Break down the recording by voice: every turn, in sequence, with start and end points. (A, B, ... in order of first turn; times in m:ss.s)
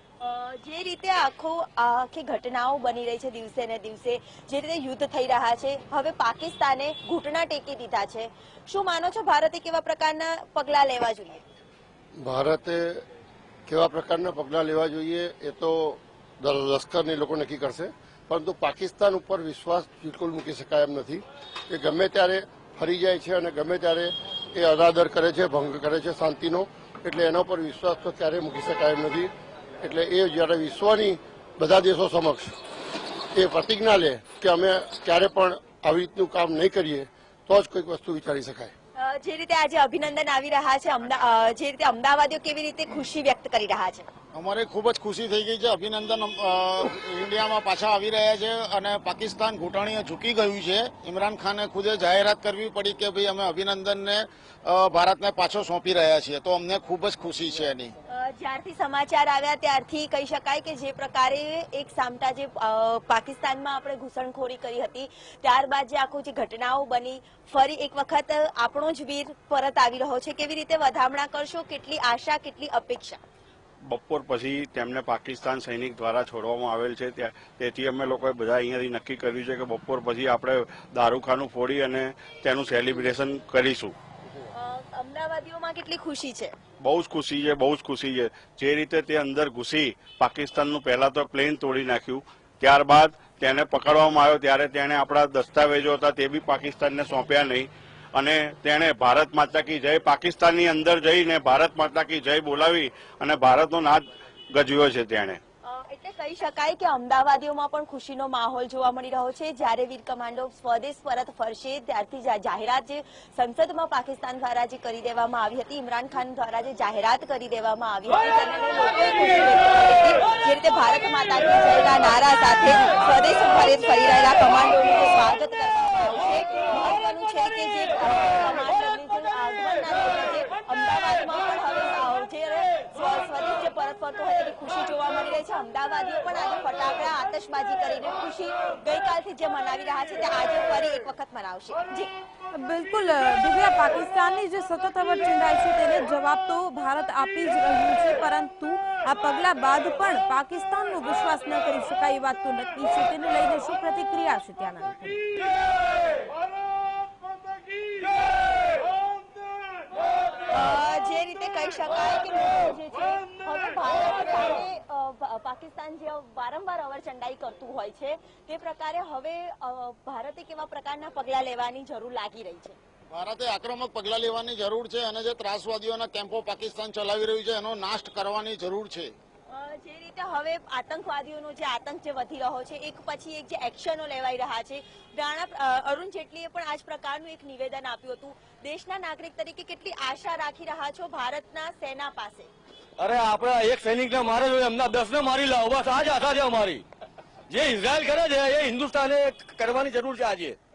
0:00.2-0:11.4 A
0:12.2-0:13.0 B
0:13.7-0:32.6 B
0:33.3-0:38.7 B
0:39.0-0:44.1 A
0:44.3-0:57.9 C
0:58.1-1:13.2 A
1:13.8-1:24.0 D
1:24.5-1:26.5 A
1:26.8-1:44.0 D
1:44.5-1:45.4 D
1:45.6-2:22.1 A
2:22.5-2:35.2 E
2:40.5-2:52.8 A
2:53.1-2:59.1 C
2:59.5-3:12.5 A
3:13.0-3:16.8 F
3:17.5-3:20.6 F